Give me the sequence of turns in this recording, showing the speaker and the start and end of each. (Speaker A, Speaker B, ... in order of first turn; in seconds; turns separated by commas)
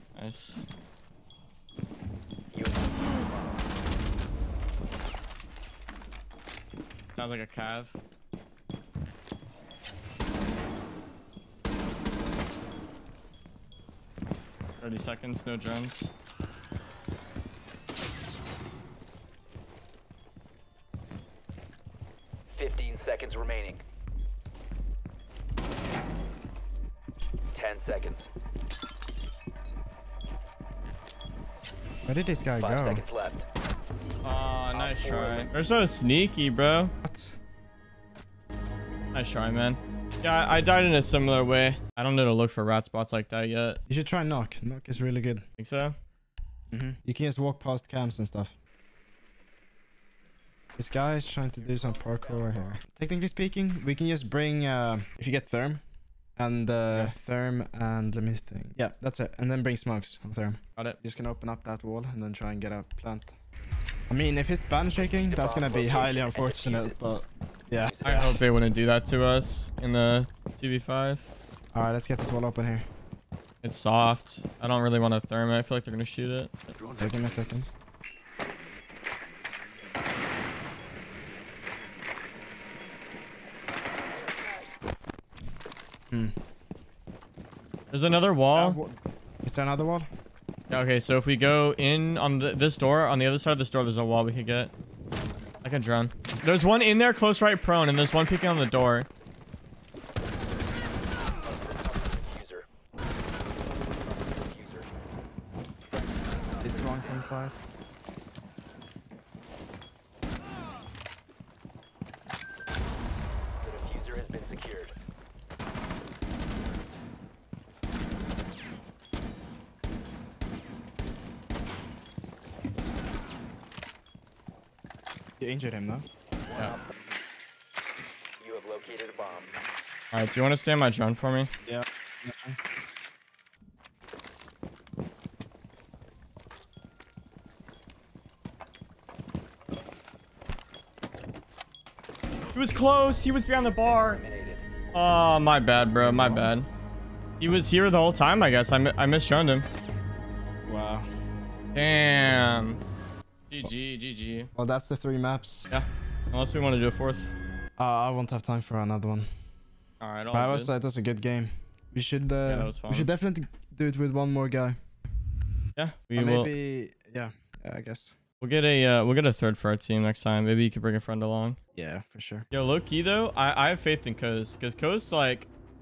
Speaker A: 0.1-0.7, Speaker B: 2.5-3.6, Speaker A: 7.1-8.0, Speaker A: 14.8-16.1, Speaker B: 22.6-23.8, Speaker B: 27.5-28.3, Speaker C: 32.1-33.0, Speaker B: 32.6-33.4, Speaker A: 34.2-36.9, Speaker B: 34.7-35.5, Speaker C: 37.0-37.4, Speaker A: 39.1-43.8, Speaker C: 43.9-45.4, Speaker A: 45.6-45.9, Speaker C: 46.7-48.6, Speaker C: 50.8-55.8, Speaker B: 51.6-52.8, Speaker C: 56.4-63.4, Speaker A: 56.9-57.1, Speaker C: 64.1-68.3, Speaker B: 65.0-67.0, Speaker B: 67.7-68.3, Speaker A: 68.0-71.3, Speaker C: 71.7-72.9, Speaker A: 73.6-76.5, Speaker C: 76.9-77.7, Speaker C: 86.1-86.3, Speaker A: 87.9-88.8, Speaker C: 88.5-90.1, Speaker A: 90.7-94.7, Speaker A: 95.6-99.1, Speaker B: 101.4-102.7, Speaker B: 103.9-104.9, Speaker C: 106.6-107.6, Speaker B: 106.6-107.0, Speaker B: 113.6-114.9, Speaker C: 125.4-126.0, Speaker B: 126.5-126.9, Speaker B: 128.4-129.5, Speaker A: 130.1-131.5, Speaker C: 131.7-132.6, Speaker A: 142.5-144.2, Speaker B: 143.8-144.7, Speaker A: 144.9-146.7, Speaker C: 146.0-146.5, Speaker A: 147.4-149.7, Speaker C: 150.7-151.1, Speaker A: 151.8-152.8, Speaker A: 153.5-154.5, Speaker C: 154.6-155.7, Speaker A: 155.7-157.3, Speaker C: 157.8-159.3, Speaker A: 160.0-160.7, Speaker C: 160.3-164.8, Speaker A: 162.4-163.1, Speaker A: 165.8-166.5, Speaker C: 166.2-168.1, Speaker A: 168.4-171.6, Speaker C: 171.8-172.5, Speaker A: 172.5-175.5